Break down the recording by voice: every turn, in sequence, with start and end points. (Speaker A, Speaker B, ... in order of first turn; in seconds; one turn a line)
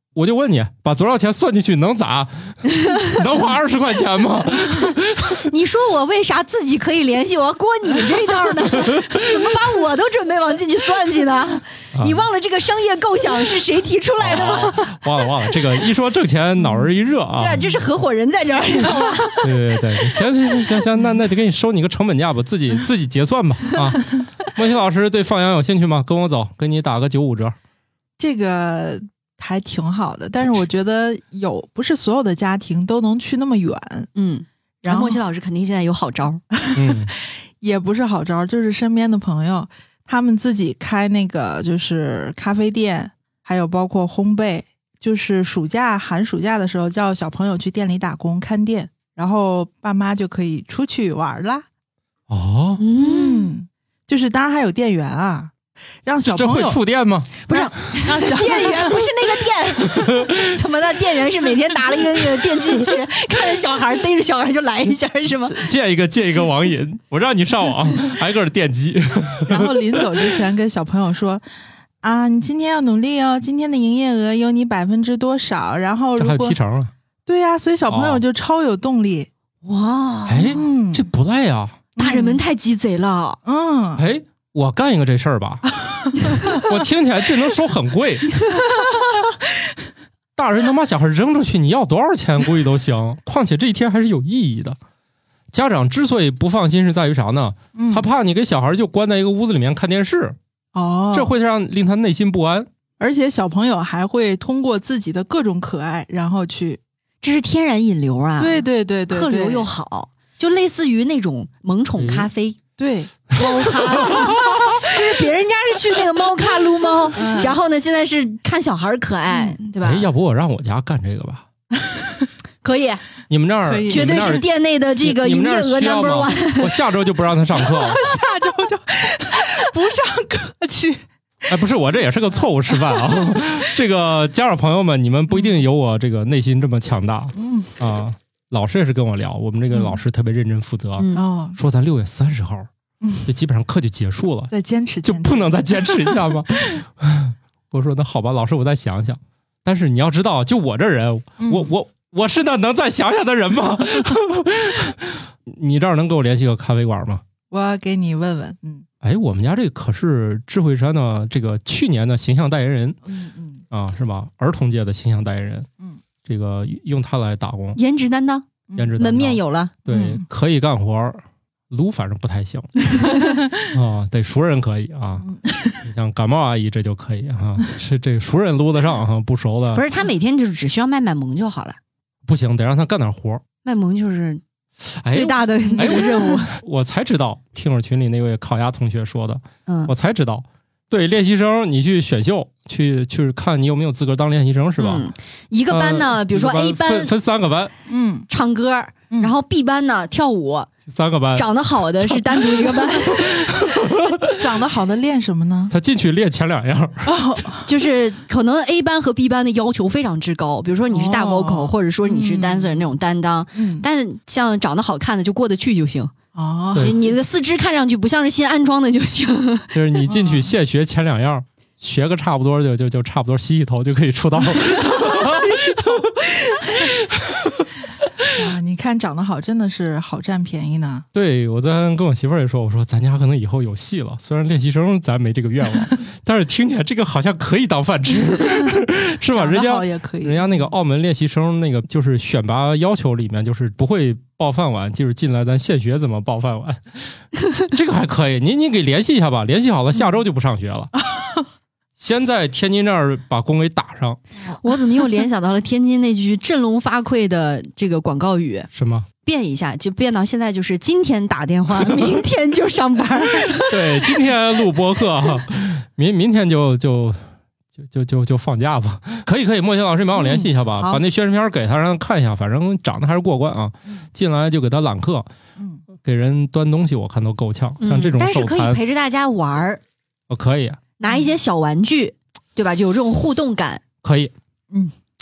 Speaker A: 0.1-5.5
Speaker B: 5.4-15.0
Speaker A: 8.9-9.2
Speaker A: 11.9-12.2
Speaker A: 14.2-17.7
Speaker B: 17.4-19.6
Speaker A: 19.4-27.6
Speaker C: 28.2-34.1
Speaker B: 34.2-36.4
Speaker C: 34.8-35.2
Speaker C: 36.6-51.7
Speaker A: 36.8-37.1
Speaker A: 52.3-52.8
Speaker B: 52.8-53.5
Speaker C: 53.0-55.5
Speaker C: 56.0-56.8
Speaker A: 56.3-57.4
Speaker B: 57.5-65.6
Speaker C: 57.5-59.1
Speaker A: 60.0-60.5
Speaker A: 65.5-70.2
Speaker C: 69.5-71.4
Speaker C: 72.0-76.6
Speaker A: 76.2-76.9
Speaker C: 77.3-79.3
Speaker A: 77.9-78.2
Speaker B: 79.6-80.6
Speaker A: 80.3-81.8
Speaker C: 80.5-81.0
Speaker C: 82.0-82.4
Speaker B: 82.0-83.4
Speaker C: 83.5-84.0
Speaker A: 84.0-85.7
Speaker C: 85.9-86.6
Speaker A: 86.2-88.3
Speaker B: 88.5-88.9
Speaker A: 90.4-94.8
Speaker A: 95.5-100.4
Speaker C: 97.8-98.0
Speaker C: 100.7-101.3
Speaker A: 101.1-102.7
Speaker C: 103.0-106.8
Speaker B: 107.2-112.6
Speaker C: 108.4-109.7
Speaker A: 112.0-112.3
Speaker C: 112.8-114.4
Speaker B: 113.4-120.1
Speaker A: 113.7-114.9
Speaker C: 117.2-117.6
Speaker C: 119.3-119.6
Speaker A: 119.8-121.5
Speaker C: 121.8-122.3
Speaker B: 122.6-123.0
Speaker A: 123.3-124.5
Speaker C: 123.7-124.1
Speaker B: 123.9-126.8
Speaker A: 125.0-128.1
Speaker C: 127.6-131.1
Speaker A: 131.5-142.7
Speaker C: 132.9-133.2
Speaker C: 137.3-137.8
Speaker B: 141.0-141.2
Speaker C: 141.1-141.6
Speaker C: 143.0-143.3
Speaker A: 143.2-144.5
Speaker C: 144.5-146.8
Speaker A: 145.0-157.2
Speaker C: 151.4-151.7
Speaker C: 157.5-158.8
Speaker A: 159.0-163.0
Speaker C: 163.1-163.6
Speaker A: 163.7-165.7
Speaker A: 166.2-167.8
Speaker B: 167.8-169.8
Speaker A: 168.8-172.7
Speaker C: 169.9-170.2
Speaker A: 173.6-175.3
Speaker C: 175.2-175.8
Speaker A: 175.8-179.8
Speaker B: 179.8-181.8
Speaker A: 182.3-183.4
Speaker B: 183.6-184.4
Speaker A: 184.8-195.1
Speaker B: 185.1-186.5
Speaker C: 185.7-186.0
Speaker B: 189.7-189.9
Speaker B: 194.8-197.1
Speaker A: 195.7-197.7
Speaker C: 197.9-198.3
Speaker B: 198.3-200.7
Speaker A: 200.9-201.5
Speaker B: 201.4-203.6
Speaker A: 202.0-204.4
Speaker C: 204.4-205.7
Speaker A: 205.7-207.1
Speaker C: 207.1-207.7
Speaker B: 207.7-216.1
Speaker C: 210.9-212.9
Speaker C: 213.6-213.9
Speaker C: 216.3-217.2
Speaker B: 216.8-219.8
Speaker A: 219.7-226.2
Speaker C: 220.1-220.5
Speaker B: 224.9-225.3
Speaker A: 226.8-228.3
Speaker C: 228.3-231.1
Speaker A: 231.1-250.9
Speaker C: 239.3-240.5
Speaker A: 252.0-254.2
Speaker B: 254.5-258.7
Speaker A: 258.7-259.1
Speaker B: 259.2-264.1
Speaker A: 263.7-267.3
Speaker A: 267.8-275.3
Speaker C: 270.2-271.0
Speaker C: 275.6-275.8
Speaker A: 276.0-278.8
Speaker B: 277.8-279.8
Speaker A: 280.3-280.8
Speaker B: 281.0-283.8
Speaker C: 281.1-281.3
Speaker A: 284.0-284.3